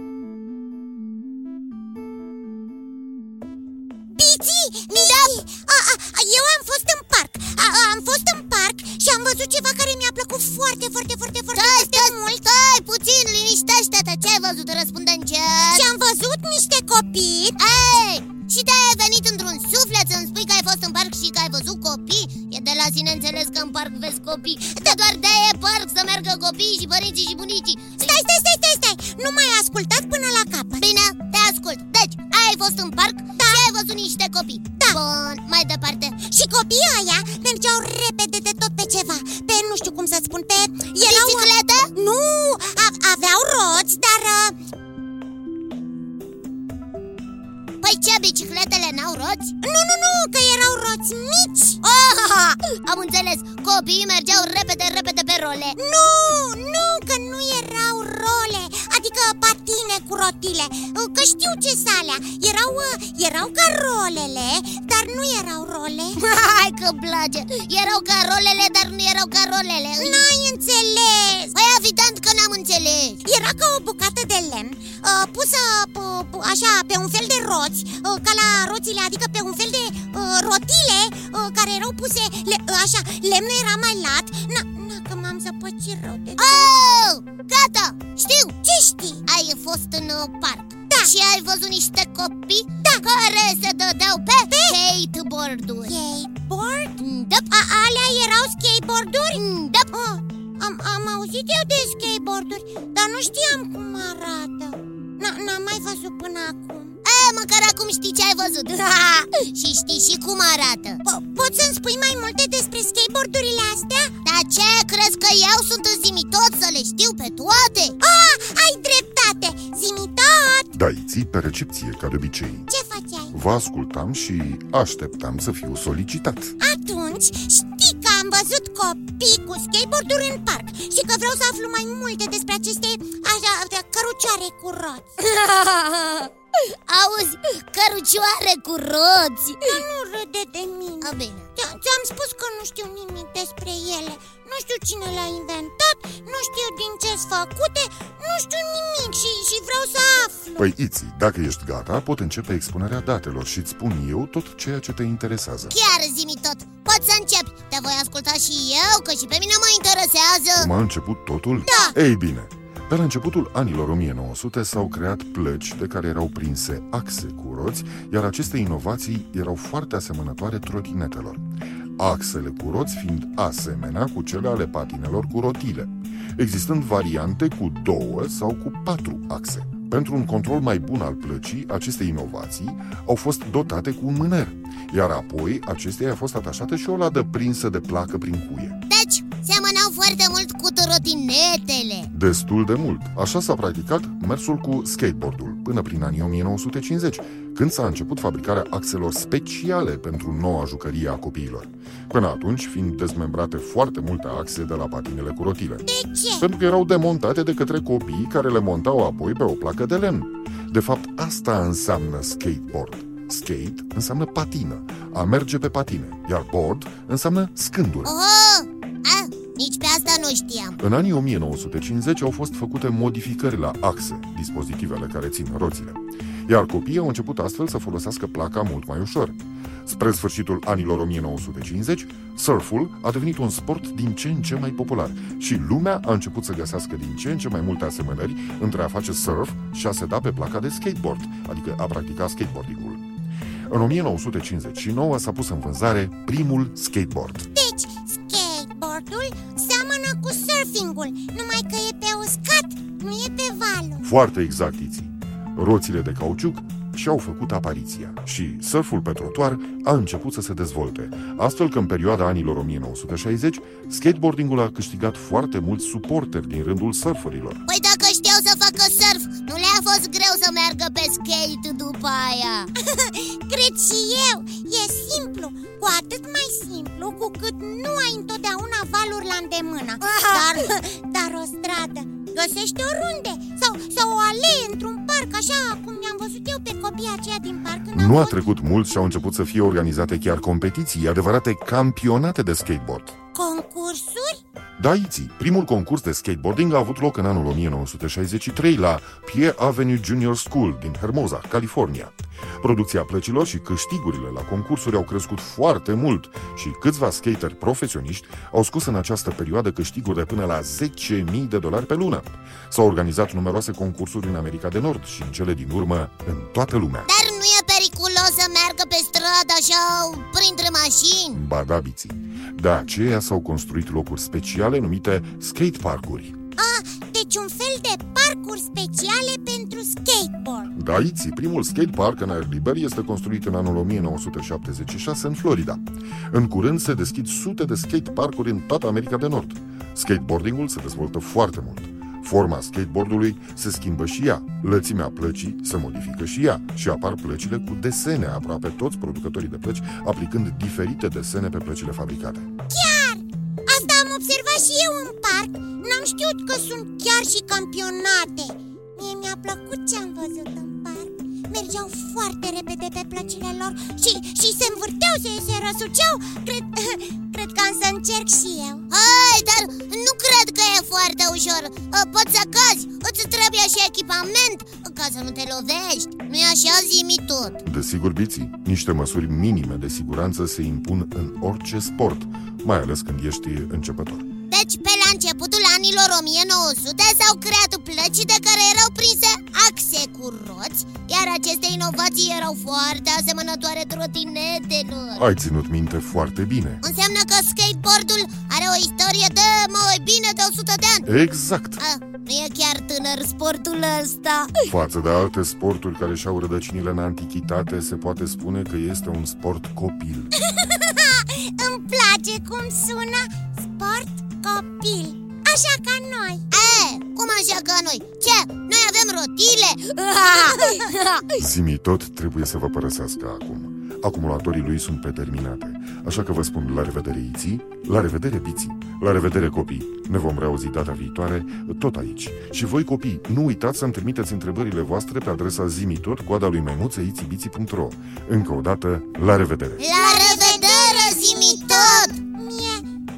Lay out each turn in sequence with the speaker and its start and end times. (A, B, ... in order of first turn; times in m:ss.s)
0:04.2-0:12.5 A
0:04.9-0:05.4 B
0:11.6-0:15.9 B
0:15.6-0:17.9 A
0:17.6-0:28.2 B
0:28.0-0:30.9 A
0:30.8-0:36.2 B
0:33.4-0:33.7 A
0:36.2-0:44.6 A
0:41.0-0:41.9 B
0:47.8-0:49.5 B
0:49.6-0:51.8 A
0:51.8-0:55.8 B
0:55.8-1:06.2 A
1:06.2-1:10.3 B
1:10.0-1:11.6 A
1:11.5-1:13.2 B
1:13.2-1:26.7 A
1:26.4-1:28.6 B
1:28.6-1:29.2 A
1:29.2-1:36.0 B
1:30.9-1:31.1 A
1:32.8-1:33.1 A
1:34.5-1:34.8 A
1:35.8-1:37.0 A
1:37.0-1:37.5 B
1:37.5-1:47.0 A
1:39.3-1:39.9 B
1:47.0-1:51.0 B
1:51.0-1:54.1 A
1:54.2-1:58.0 B
1:58.0-2:00.7 A
2:00.7-2:02.7 C
2:02.7-2:03.4 A
2:03.3-2:06.6 C
2:06.6-2:15.1 A
2:15.2-2:19.8 B
2:19.6-2:30.7 A
2:21.0-2:21.5 B
2:30.6-2:35.8 C
2:35.7-2:40.7 B
2:40.6-3:08.8 C
2:41.6-2:42.0 A
3:08.9-3:12.1 B
3:12.1-3:25.9 C
3:25.9-3:26.5 A
3:26.4-3:38.1 C
3:38.0-3:40.8 B
3:40.8-4:03.0 C
4:03.7-4:07.5 C
4:07.5-4:14.1 A
4:14.0-4:27.6 C
4:27.7-4:32.7 B
4:32.8-4:48.4 A
4:40.0-4:40.5 B
4:47.9-4:53.2 C
4:53.3-4:54.4 A
4:54.8-5:17.1 C
5:17.0-5:21.4 B
5:21.3-5:26.4 C
5:26.6-5:30.7 A
5:30.7-5:52.5 C
5:52.7-6:08.9 A
6:08.9-6:17.6 B
6:17.6-6:24.2 C
6:24.5-6:35.3 B
6:35.2-6:36.8 C
6:36.8-6:41.1 B
6:41.1-6:41.8 C
6:41.8-6:44.7 B
6:44.7-6:50.3 C
6:50.4-6:56.5 A
6:56.5-7:01.3 B
7:00.4-7:00.8 A
7:01.3-7:19.8 C
7:19.8-7:22.2 B
7:19.9-7:22.8 A